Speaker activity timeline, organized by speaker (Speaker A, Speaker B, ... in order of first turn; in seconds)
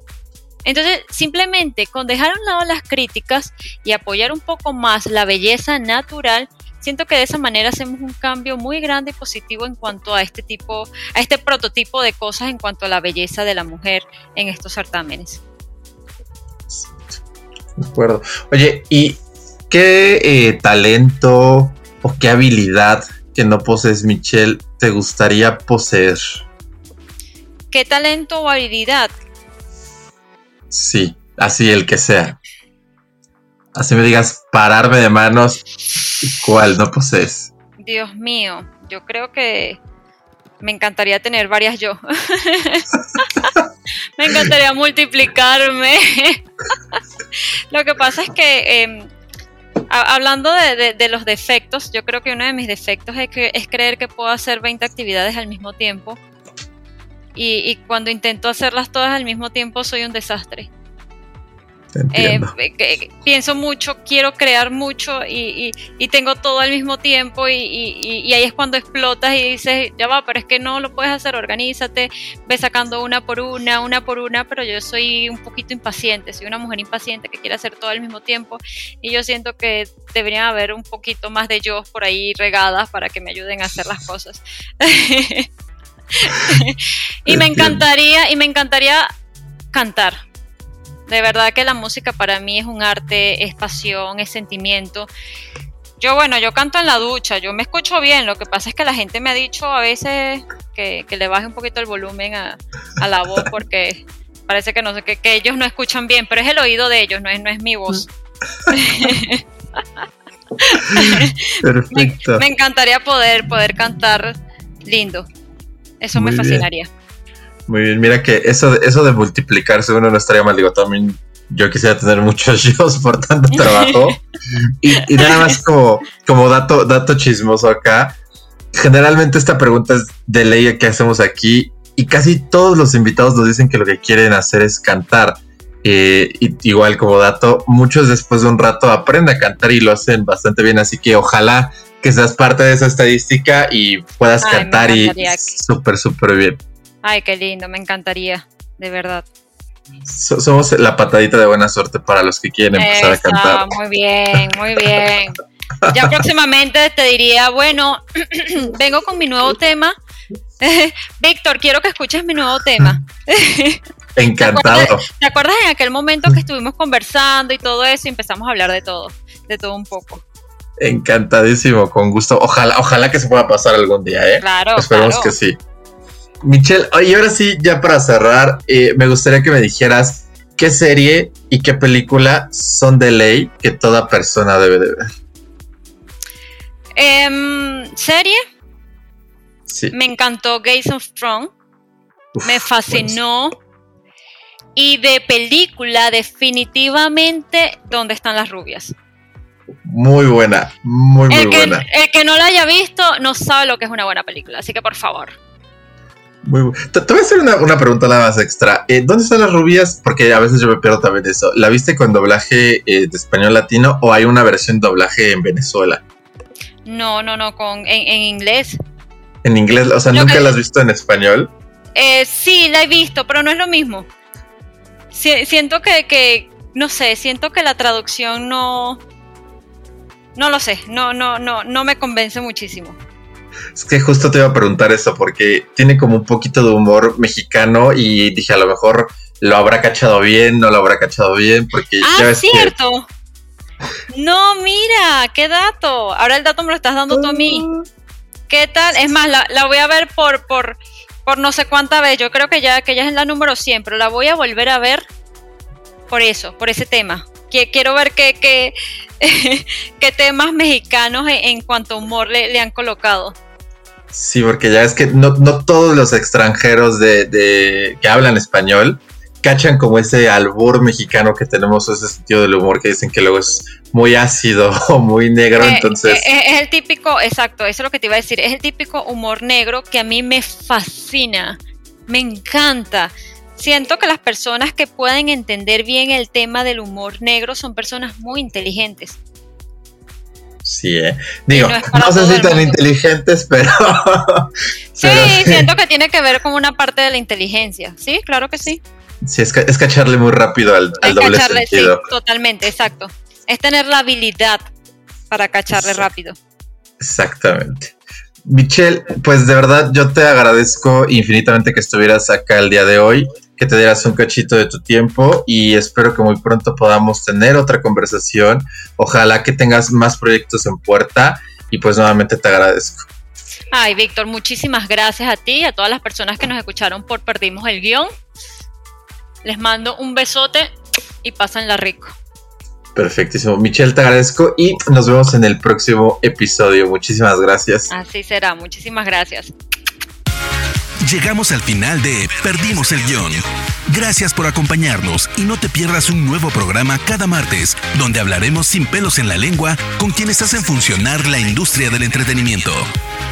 Speaker A: 0.7-15.4, 27.7-29.1, 37.8-39.8, 40.6-43.5, 44.2-47.0, 47.7-49.1, 49.9-56.2, 57.4-60.7, 62.1-85.5, 86.2-89.1, 89.7-90.2, 91.1-95.1, 96.0-108.1, 108.7-109.4, 110.6-115.3, 116.0-116.9, 123.5-124.0, 125.0-125.5, 144.4-145.6, 147.0-149.3, 152.8-160.0, 160.6-163.8, 164.4-170.2, 174.4-175.3, 187.0-188.4, 189.9-191.5, 192.4-193.6, 194.8-198.9, 201.3-205.4, 216.9-218.8, 220.1-220.5, 222.0-224.1, 225.1-229.0, 230.4-233.0, 242.0-243.1, 244.1-247.7, 248.5-255.0, 256.1-263.4, 275.6-289.2, 291.5-292.8, 295.0-298.8, 301.0-304.6, 305.3-306.4, 323.7-328.1, 329.4-330.7, 331.2-332.1, 337.9-339.5
Speaker B: 16.7-17.1, 17.8-26.4, 30.7-32.4, 33.8-35.6, 36.2-37.5, 62.0-62.5, 87.3-87.8, 110.9-112.4, 116.2-116.7, 117.7-124.2, 124.8-128.2, 128.7-146.6, 150.1-153.7, 155.8-156.2, 164.2-165.1, 170.8-175.6, 176.4-185.1, 189.7-189.9, 192.3-193.2, 199.8-201.9, 206.4-216.0, 219.4-221.5, 233.8-242.7, 247.1-247.9, 264.1-276.3, 290.6-295.7, 299.2-302.1, 305.8-306.0, 307.0-323.1, 332.9-337.9
Speaker C: 341.0-352.9